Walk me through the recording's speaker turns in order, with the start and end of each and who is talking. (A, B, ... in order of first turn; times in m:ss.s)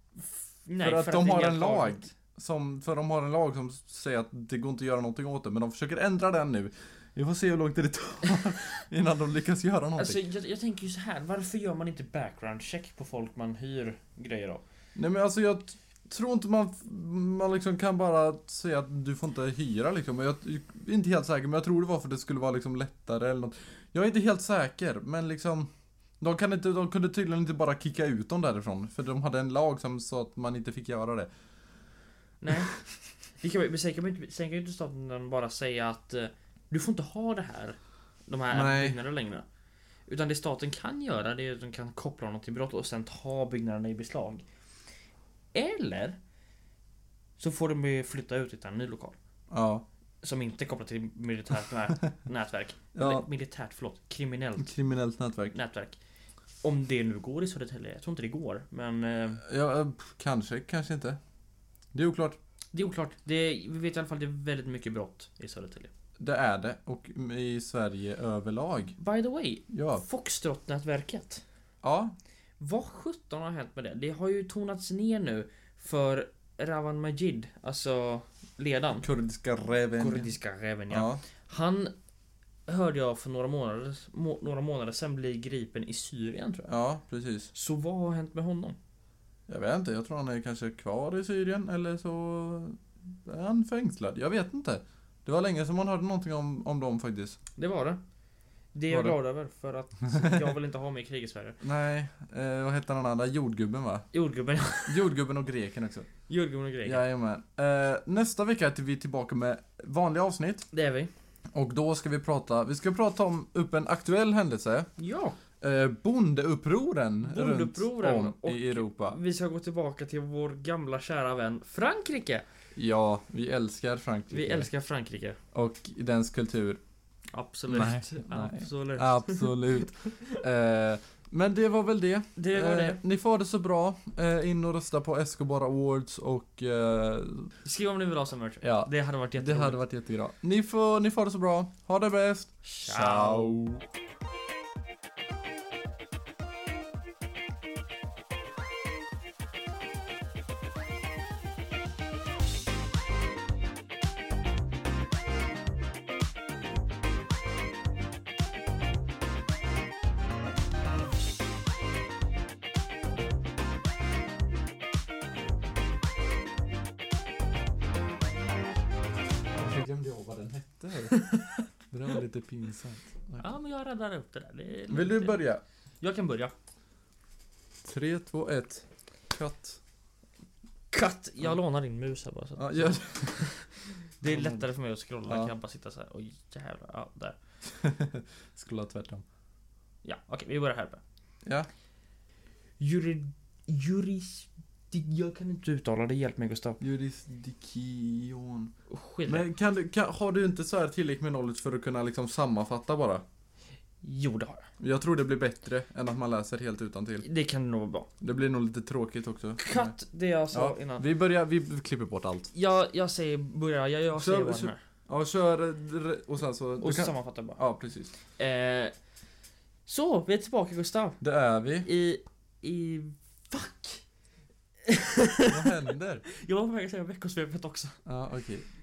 0:00.2-0:02.1 A
0:00.8-0:10.2 B
0:10.0-0:14.6 A
0:14.9-0:25.7 B
0:26.2-0:31.3 B
0:32.4-0:32.8 A
0:33.4-0:39.4 A
0:38.5-0:39.0 B
0:40.1-0:44.4 A
0:45.5-0:46.2 A
0:47.4-0:49.2 A
0:49.5-0:49.8 B
0:50.2-0:54.7 A
0:52.9-0:53.3 B
0:54.6-0:55.5 B
0:55.5-0:56.0 A
0:56.6-0:59.4 A
0:59.4-1:01.2 B
1:01.9-1:02.4 B
1:02.7-1:05.9 A
1:06.2-1:09.0 B
1:09.0-1:11.4 A
1:09.7-1:10.0 B
1:11.8-1:12.1 B
1:12.6-1:19.0 A
1:19.0-1:20.3 B
1:20.0-1:21.9 A
1:20.9-1:21.2 B
1:22.7-1:26.7 A
1:26.7-1:27.5 B
1:27.5-1:28.8 A
1:29.5-1:37.4 B
1:37.6-1:38.0 A
1:38.7-1:41.6 A
1:38.9-1:39.2 B
1:40.2-1:40.4 B
1:41.6-1:44.0 B
1:44.1-1:45.1 A
1:44.8-1:46.1 B
1:46.3-1:47.0 A
1:46.8-1:50.7 B
1:50.7-1:51.1 A
1:51.5-1:54.9 B
1:55.0-1:55.4 A
1:55.6-1:59.2 B
1:57.2-2:02.4 A
2:02.8-2:04.7 B
2:04.3-2:05.4 A
2:05.5-2:06.8 B
2:07.3-2:10.4 A
2:07.7-2:17.5 B
2:12.4-2:13.0 A
2:17.6-2:19.8 A
2:18.6-2:23.8 B
2:22.6-2:23.6 A
2:49.5-2:51.2 B
2:51.1-2:51.6 A
2:51.9-2:53.5 B
2:53.4-2:55.4 A
2:54.9-2:55.6 B
2:56.0-2:56.5 A
2:57.8-2:59.8 B
3:00.9-3:07.4 A
3:02.6-3:03.5 B
3:04.2-3:04.7 B
3:05.3-3:05.5 B
3:07.7-3:09.2 B
3:10.0-3:11.0 A
3:12.8-3:16.8 A
3:16.8-3:18.7 B
3:18.9-3:19.5 A
3:19.2-3:23.2 B
3:24.0-3:24.6 A
3:24.8-3:27.2 B
3:27.2-3:28.1 A
3:28.2-3:29.9 B
3:29.6-3:31.0 A
3:30.5-3:32.5 B
3:32.5-3:34.8 A
3:34.1-3:38.1 B
3:36.8-3:37.6 A
3:38.4-3:38.9 A
3:39.9-3:41.2 A
3:41.2-3:41.9 B
3:41.8-3:44.0 A
3:44.8-3:45.6 A
3:45.5-3:46.2 B
3:46.3-3:48.0 A
3:48.0-3:48.6 B